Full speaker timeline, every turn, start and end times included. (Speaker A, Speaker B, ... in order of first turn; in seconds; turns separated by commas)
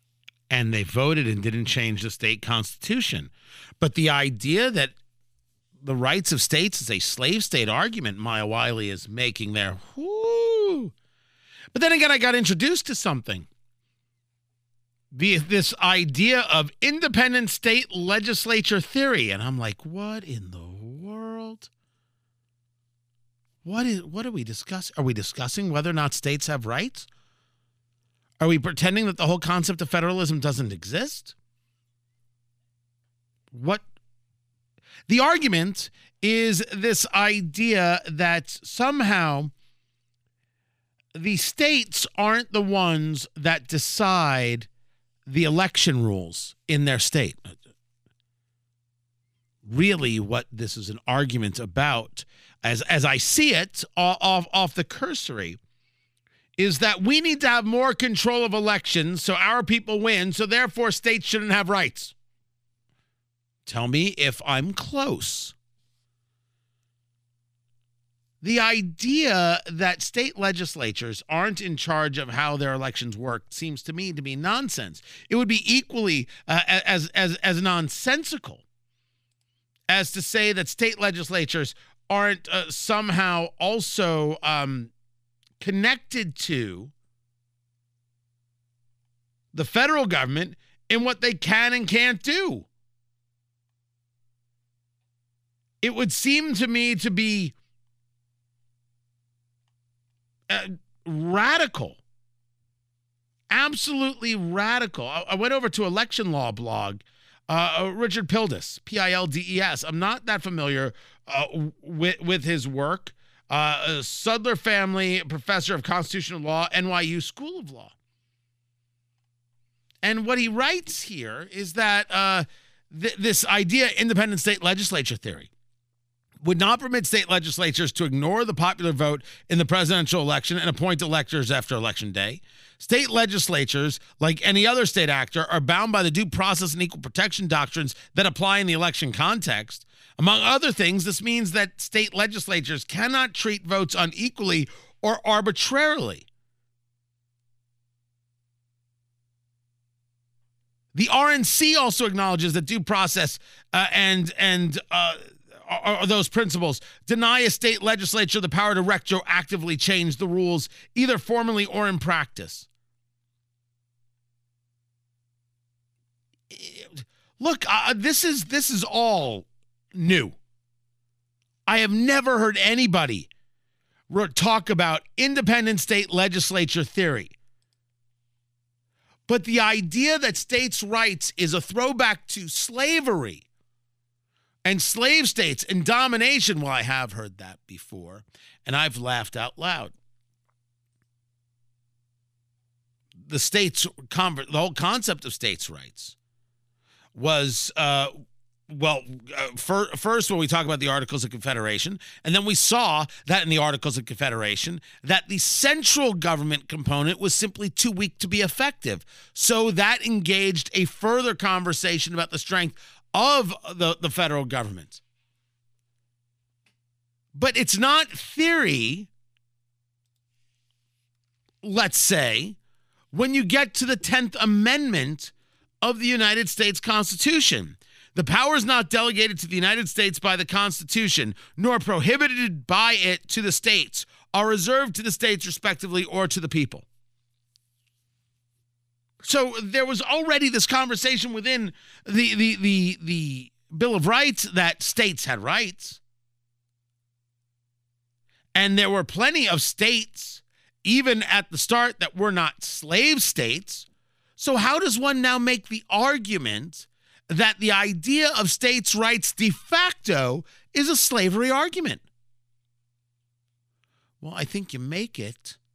Speaker A: 0.5-4.9, Speaker A: 5.8-10.9, Speaker A: 11.7-13.5, Speaker A: 15.1-21.7, Speaker A: 23.6-27.1, Speaker A: 28.4-31.3, Speaker A: 33.5-33.8, Speaker A: 35.1-39.5, Speaker A: 41.1-44.7, Speaker A: 45.2-47.6, Speaker A: 49.6-55.6, Speaker A: 56.6-62.1, Speaker A: 63.6-65.5, Speaker A: 68.4-78.6, Speaker A: 79.9-84.9, Speaker A: 85.6-86.9, Speaker A: 89.5-92.7, Speaker A: 95.8-97.5, Speaker A: 100.5-102.0, Speaker A: 103.5-117.9, Speaker A: 120.0-125.5, Speaker A: 126.4-146.2, Speaker A: 150.9-162.7, Speaker A: 166.5-170.3, Speaker A: 171.7-173.3, Speaker A: 174.1-177.3, Speaker A: 179.3-183.4, Speaker A: 184.6-189.9, Speaker A: 193.2-196.1, Speaker A: 197.1-198.1, Speaker A: 198.7-215.0, Speaker A: 217.3-219.1, Speaker A: 221.6-222.6, Speaker A: 223.1-236.8, Speaker A: 239.2-246.0, Speaker A: 248.5-253.8, Speaker A: 254.4-262.0, Speaker A: 264.2-265.6